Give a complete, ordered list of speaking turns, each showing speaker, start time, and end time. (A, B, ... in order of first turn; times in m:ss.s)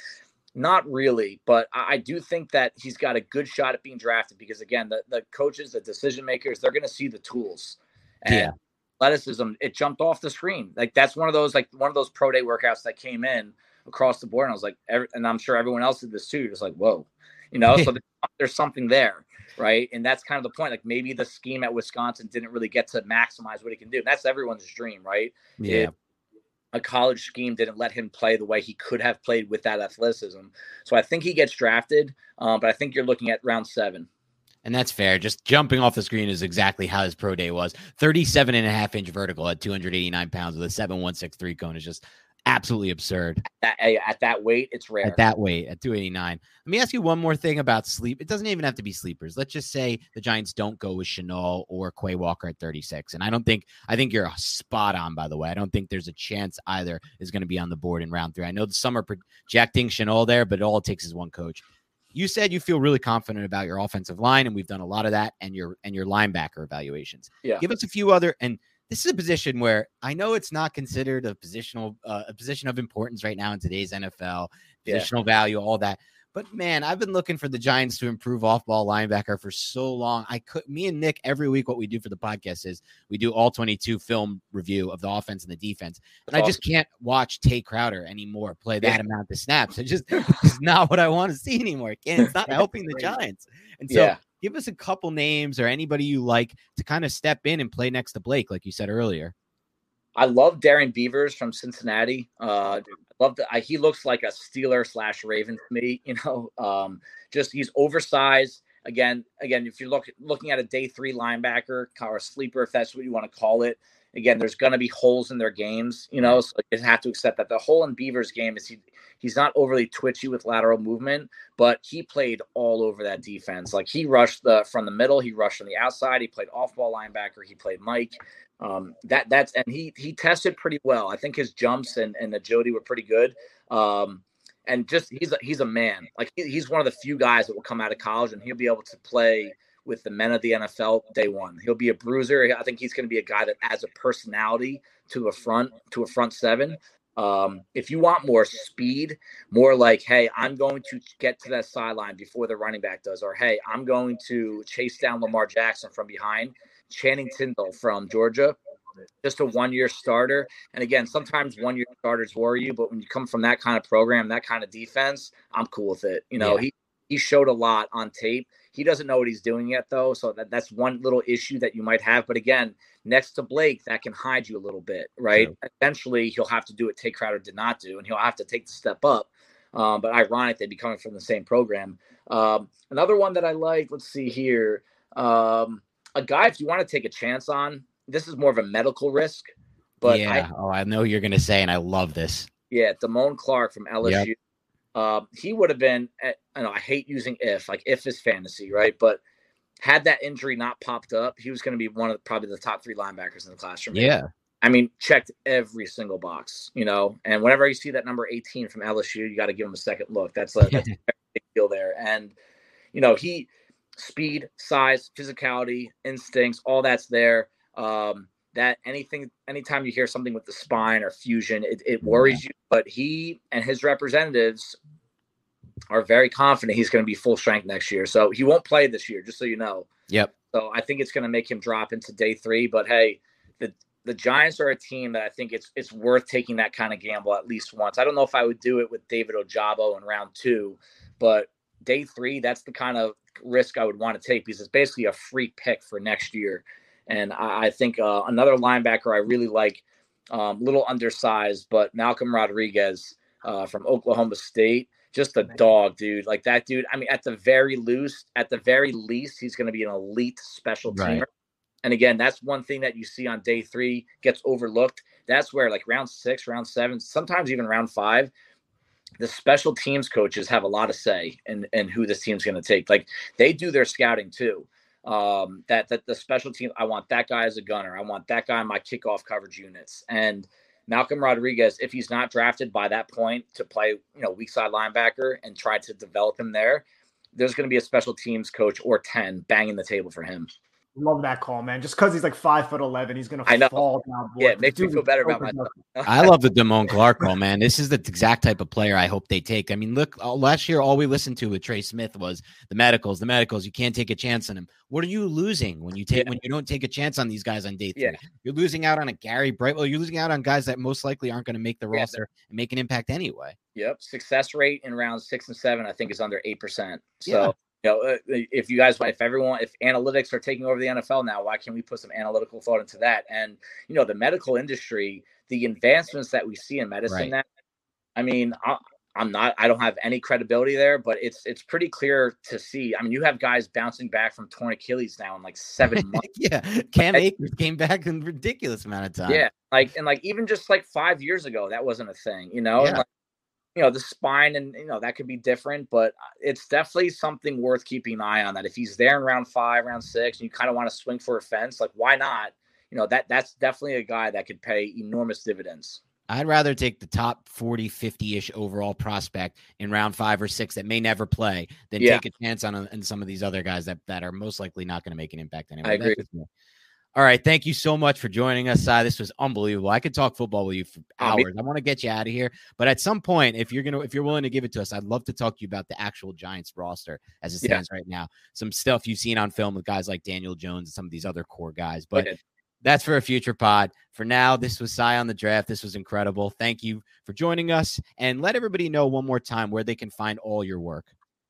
0:00.6-0:25.9 A
0:08.3-0:08.5 B
0:25.6-0:25.9 B
0:26.7-0:34.1 A
0:34.6-0:43.4 B
0:43.6-0:45.2 A
0:45.0-1:01.6 B
1:02.2-1:39.3 B
1:26.3-1:26.6 A
1:33.9-1:34.2 A
1:40.2-2:38.6 A
2:39.2-3:09.5 A
3:10.0-3:10.5 A
3:10.0-3:12.5 B
3:12.7-3:14.4 A
3:15.0-3:19.2 A
3:19.8-3:32.4 A
3:23.9-3:24.3 B
3:30.6-3:30.9 B
3:32.9-3:44.8 A
3:42.0-3:42.4 B
3:45.9-3:49.9 A
3:50.5-4:21.3 A
4:20.9-4:21.2 B
4:21.8-4:28.3 A
4:29.2-4:46.8 A
4:47.4-4:50.5 A
4:51.0-4:55.8 C
4:53.5-4:53.8 A
4:54.4-4:56.3 A
4:56.1-5:13.6 B
5:11.9-5:12.2 A
5:13.8-5:27.4 A
5:17.3-5:17.5 B
5:28.2-5:36.2 A
5:35.9-5:39.4 B
5:39.3-5:43.0 A
5:43.8-5:56.0 A
5:56.3-6:06.5 B
6:05.8-6:06.2 A
6:07.2-6:22.3 B
6:11.2-6:11.5 A
6:22.8-6:31.1 B